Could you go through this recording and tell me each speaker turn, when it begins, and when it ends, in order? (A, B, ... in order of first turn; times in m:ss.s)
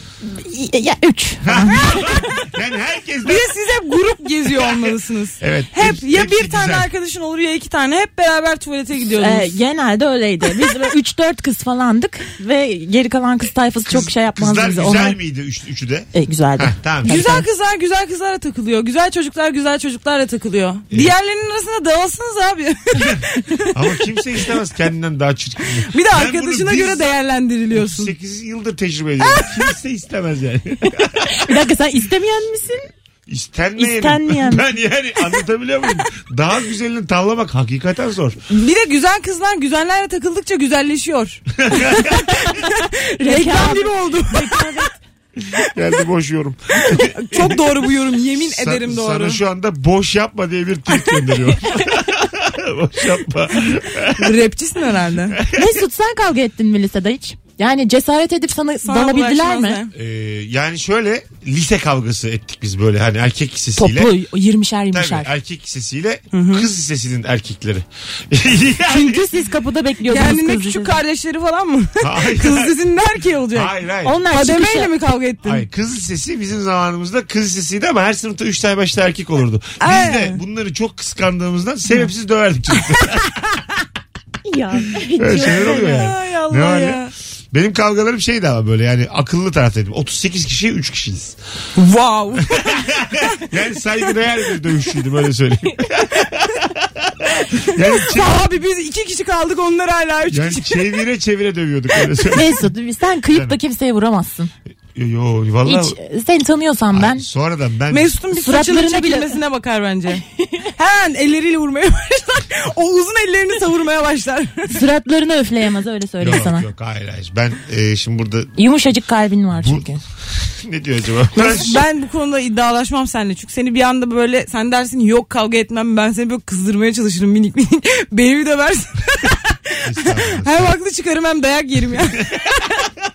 0:00.3-0:02.0 A
0:01.4-0:03.5 B
0:03.2-0:09.6 C
0:04.5-0:06.9 B
0:09.2-0:15.2 A
0:13.9-0:17.3 B
0:16.1-0:17.4 A
0:17.0-0:23.8 C
0:23.7-0:27.1 B
0:25.9-0:28.1 C
0:27.7-0:31.4 B
0:31.3-0:32.9 A
0:33.3-0:38.4 B
0:33.8-0:34.6 A
0:38.5-0:44.8 C
0:41.6-0:42.3 B
0:42.4-0:42.6 A
0:43.2-0:44.9 A
0:45.5-0:47.7 B
0:46.8-0:49.4 C
0:48.4-0:54.4 B
0:54.2-0:55.4 C
0:55.3-0:55.7 B
0:55.5-0:59.8 A
0:58.8-0:59.9 C
0:59.9-1:04.1 B
1:03.8-1:05.3 A
1:04.9-1:09.2 B
1:06.3-1:06.7 C
1:08.9-1:11.0 A
1:10.1-1:13.7 C
1:12.0-1:12.8 B
1:13.5-1:14.2 B
1:14.0-1:14.9 A
1:14.3-1:15.6 C
1:15.4-1:23.6 B
1:19.8-1:20.4 C
1:24.5-1:26.1 A
1:25.2-1:31.4 B
1:25.6-1:27.1 C
1:31.8-1:33.4 C
1:32.5-1:38.5 B
1:37.9-1:40.9 C
1:40.3-1:42.6 B
1:42.3-1:44.5 A
1:44.9-1:46.0 B
1:45.6-1:47.2 A
1:46.9-1:48.1 B
1:47.9-1:50.2 C
1:48.3-1:49.3 A
1:50.8-1:54.7 C
1:54.7-1:56.6 A
1:56.2-1:58.6 B
1:58.6-2:00.0 A
1:59.6-2:01.8 B
2:01.4-2:12.6 C
2:09.8-2:10.7 B
2:12.2-2:12.9 B